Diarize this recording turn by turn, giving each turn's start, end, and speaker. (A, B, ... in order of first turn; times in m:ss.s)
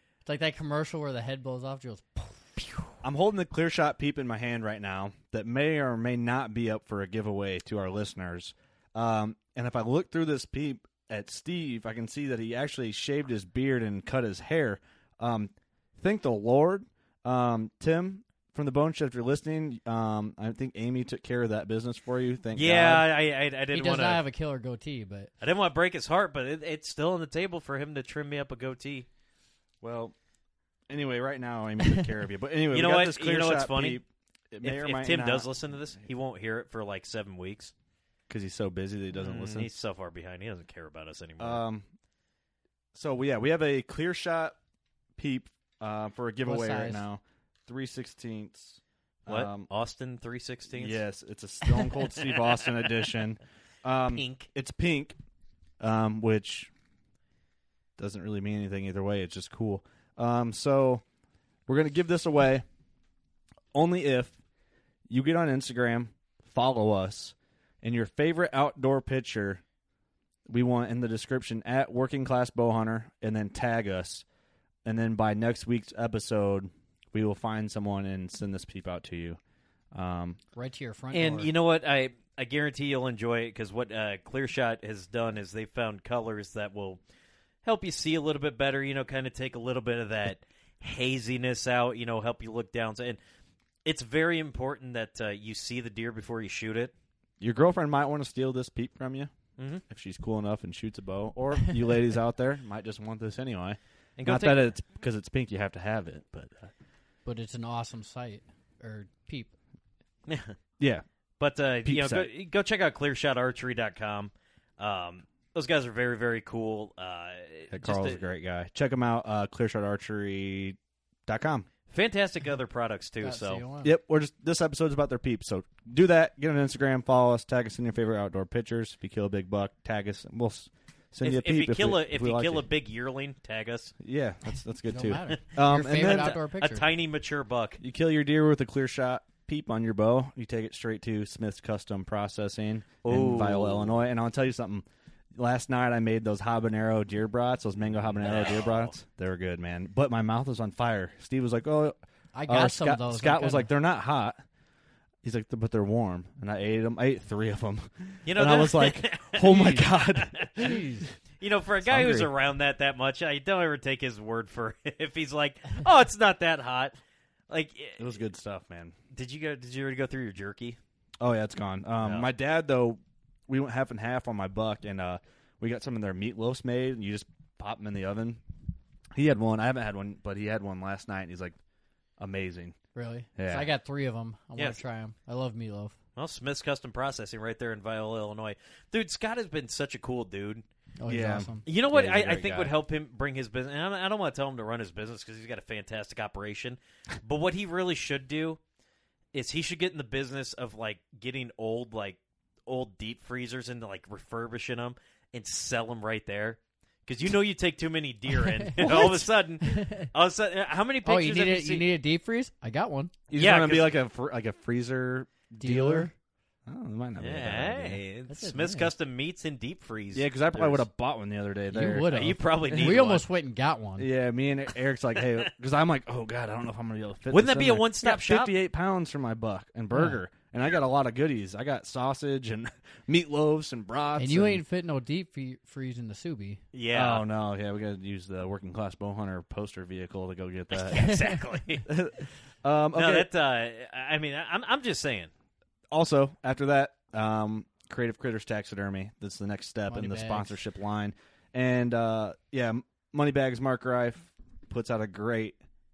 0:00.2-0:02.8 A
0:03.0-0:23.0 B
0:22.5-0:24.2 C
0:23.7-0:25.3 A
0:25.4-0:29.0 C
0:29.8-0:30.1 B
0:30.9-0:35.5 B
0:32.7-0:34.0 C
0:34.6-0:37.7 C
0:38.3-0:39.7 B
0:39.1-0:41.6 C
0:41.4-0:41.9 B
0:42.9-0:44.6 B
0:45.2-0:49.7 B
0:46.4-0:47.0 A
0:49.2-0:51.0 C
0:50.7-0:55.2 B
0:52.2-0:52.9 C
0:54.1-0:54.5 C
0:55.8-0:56.7 B
0:58.0-1:01.0 B
1:01.7-1:02.6 B
1:03.7-1:04.4 B
1:05.1-1:09.6 B
1:10.5-1:14.2 B
1:14.8-1:19.4 B
1:19.9-1:20.4 B
1:20.5-1:21.5 A
1:21.1-1:27.0 C
1:27.6-1:33.2 C
1:33.8-1:36.9 C
1:37.4-1:39.3 B
1:39.6-1:39.8 C
1:39.9-1:46.7 B
1:44.2-1:44.7 C
1:47.2-1:49.5 A
1:50.3-1:50.5 C
1:50.8-1:51.0 B
1:51.4-1:58.2 C
1:51.8-1:52.3 B
1:57.7-2:01.7 B
2:01.9-2:03.6 C
2:03.2-2:04.0 A
2:03.8-2:12.6 B
2:11.2-2:13.9 C
2:14.0-2:16.3 B
2:14.9-2:16.8 A
2:15.9-2:17.8 C
2:17.8-2:34.4 B
2:23.0-2:24.0 C
2:28.0-2:29.0 C
2:32.3-2:33.7 A
2:35.2-2:40.8 B
2:38.3-2:40.7 C
2:40.6-2:41.1 A
2:41.4-2:47.0 C
2:41.9-2:42.3 B
2:47.5-2:48.2 C
2:48.0-2:48.9 B
2:49.1-2:50.8 C
2:51.2-2:58.4 B
2:52.0-2:52.3 C
2:59.1-3:01.6 B
3:02.2-3:02.8 B
3:02.9-3:06.0 A
3:03.4-3:03.7 B
3:06.2-3:10.6 C
3:11.0-3:11.6 A
3:11.0-3:12.7 B
3:11.6-3:18.6 C
3:19.3-3:31.9 C
3:28.3-3:30.1 A
3:31.0-3:33.1 A
3:33.3-3:36.1 B
3:33.3-3:34.0 C
3:35.6-3:36.1 A
3:36.6-3:38.0 B
3:37.2-3:40.8 C
3:38.3-3:38.9 A
3:40.1-3:42.1 B
3:41.7-3:44.1 A
3:42.0-3:43.2 C
3:42.7-3:43.0 B
3:44.0-3:54.6 B
3:47.3-3:48.5 C
3:49.9-3:50.2 A
3:54.2-3:56.6 A
3:56.7-3:57.3 C
3:56.9-4:01.1 B
4:00.7-4:01.9 C
4:01.0-4:01.3 A
4:01.9-4:03.3 B
4:02.9-4:05.3 C
4:05.9-4:15.6 B
4:09.9-4:10.6 A